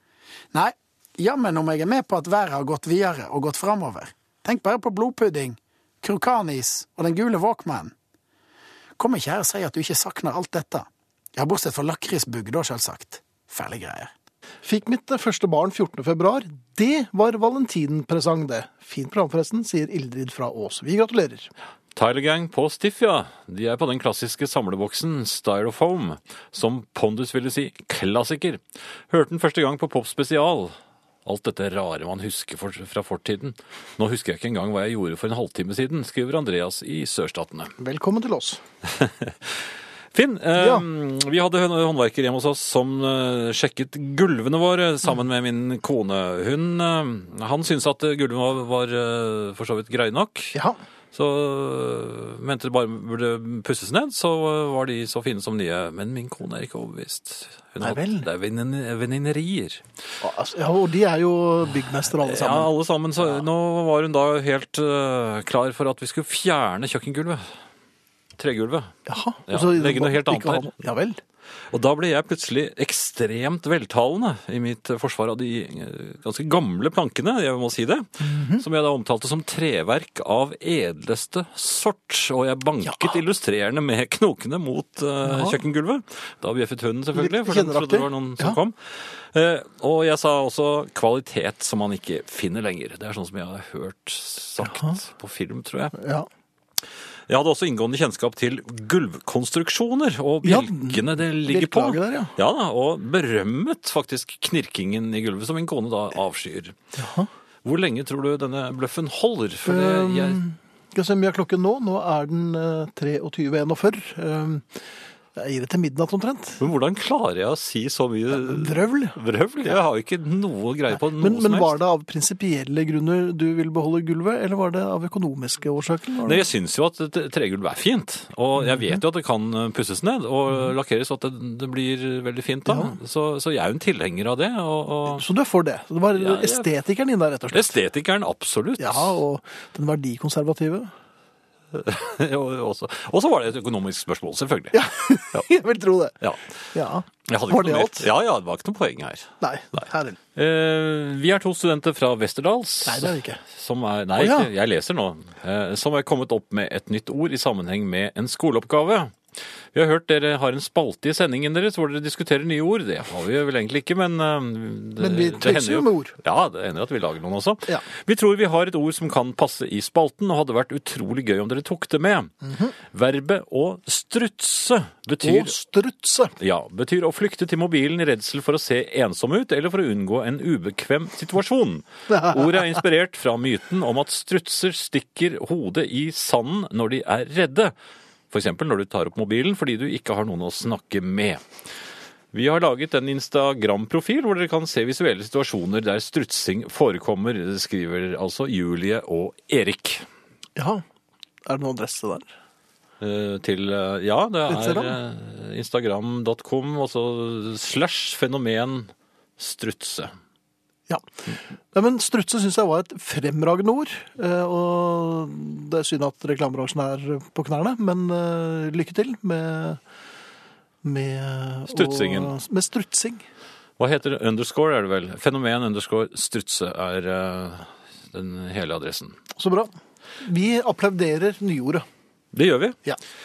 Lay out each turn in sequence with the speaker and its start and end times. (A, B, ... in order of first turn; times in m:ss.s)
0:00.5-0:07.9 A
0:09.0-0:14.1 A
0:14.6-0:21.5 B
0:22.0-0:30.7 C
0:31.2-0:37.7 C
0:37.8-0:38.6 B
0:39.0-0:39.3 C
0:40.1-0:50.6 C
0:40.6-0:40.8 B
0:50.5-0:50.8 B
0:51.1-0:59.8 C
0:57.8-0:58.3 B
1:00.2-1:02.7 B
1:02.2-1:07.4 C
1:08.4-1:08.9 C
1:09.1-1:11.2 B
1:09.5-1:10.7 C
1:11.7-1:36.0 C
1:18.2-1:18.7 B
1:25.2-1:25.6 B
1:27.1-1:28.6 B
1:34.6-1:35.0 B
1:36.0-1:36.3 B
1:37.3-1:46.8 C
1:40.4-1:42.3 B
1:47.0-1:47.3 B
1:47.6-1:50.4 C
1:49.7-1:56.6 B
1:56.6-2:01.8 C
1:58.3-1:59.2 B
2:01.2-2:06.4 B
2:06.2-2:15.3 C
2:12.7-2:13.0 B
2:15.1-2:17.8 B
2:16.1-2:16.7 C
2:17.5-2:19.2 C
2:18.8-2:20.9 B
2:21.7-2:25.5 C
2:24.7-2:26.2 B
2:26.2-2:26.5 C
2:26.7-2:28.1 B
2:27.3-2:39.2 C
2:29.4-2:30.2 B
2:32.8-2:33.4 B
2:34.2-2:34.5 B
2:39.7-2:55.6 C
2:45.0-2:46.1 B
2:55.2-2:56.3 B
2:56.4-3:07.7 C
3:08.3-3:11.4 C
3:12.3-3:20.1 C
3:20.6-3:20.8 B
3:21.4-3:22.3 B
3:23.0-3:30.1 C
3:24.5-3:25.0 B
3:31.7-3:39.8 B
3:40.8-3:43.2 B
3:41.7-3:42.3 C
3:43.8-3:49.2 C
3:49.4-3:51.9 B
3:52.3-3:52.8 C